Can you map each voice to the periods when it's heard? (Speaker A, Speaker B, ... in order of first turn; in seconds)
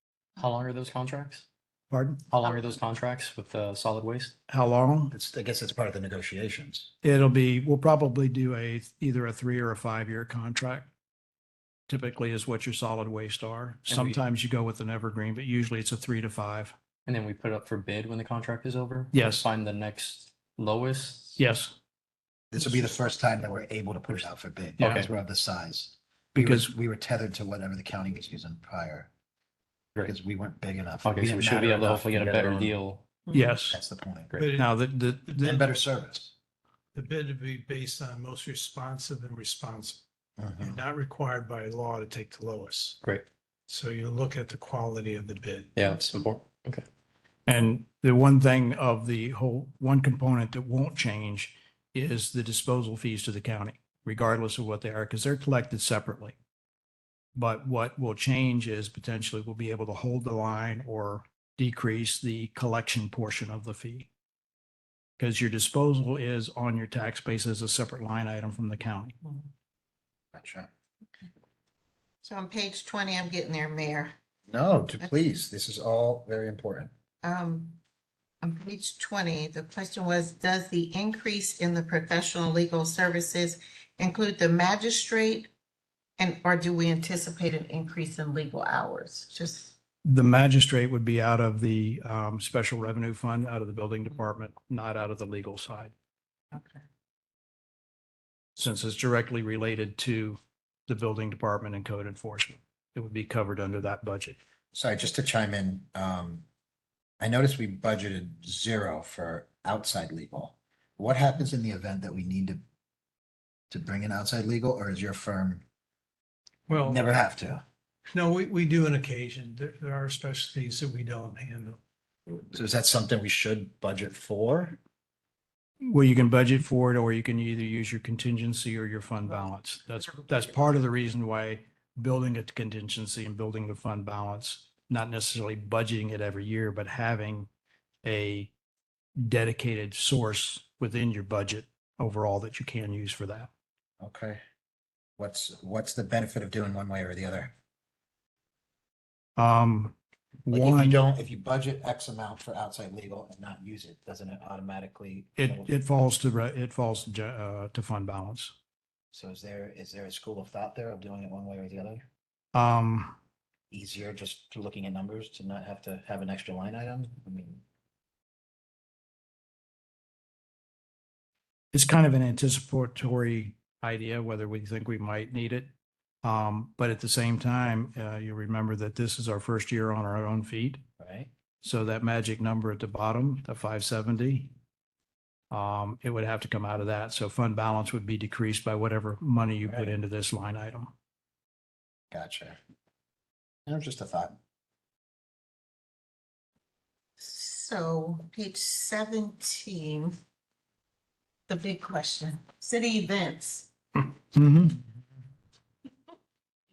Speaker A: 0.4-1.4, 2.3-4.3, 13.9-14.2, 17.1-21.4, 24.8-25.1, 31.0-33.0, 45.8-46.9
Speaker B: 1.9-2.2, 4.5-5.1, 7.0-10.9, 11.9-16.7, 19.1-19.4, 21.4-21.7, 24.8-25.1, 26.3-26.7, 33.3-33.8, 34.5-35.6, 47.5-56.4, 57.4-64.1, 65.2-69.2, 90.0-95.9, 98.5-104.4, 125.8-137.5, 138.0-138.5, 139.2-143.5, 149.4-151.0, 155.4-158.5, 162.5-163.2, 171.7-175.7, 176.2-180.8, 181.6-184.5, 185.5-190.9, 204.3-204.8
Speaker C: 5.1-6.9, 22.5-29.1, 30.0-32.8, 33.7-34.3, 35.4-36.3, 40.4-40.8, 70.3-70.7, 74.5-76.9, 104.7-106.4, 107.2-112.6, 113.7-115.6, 116.8-117.6, 122.3-124.8, 144.0-144.4, 145.2-147.5, 150.5-155.7, 159.1-162.0, 163.7-167.6, 181.0-181.3, 189.6-189.9, 192.1-192.6, 193.7-194.3
Speaker D: 33.3-33.6, 72.2-74.1, 77.2-77.8, 78.4-85.5, 86.2-89.7, 96.5-96.8, 130.1-130.4, 197.2-200.1, 201.5-203.7
Speaker E: 34.3-34.7, 36.9-40.0, 40.6-43.0, 43.7-45.7, 116.7-117.0, 118.1-121.8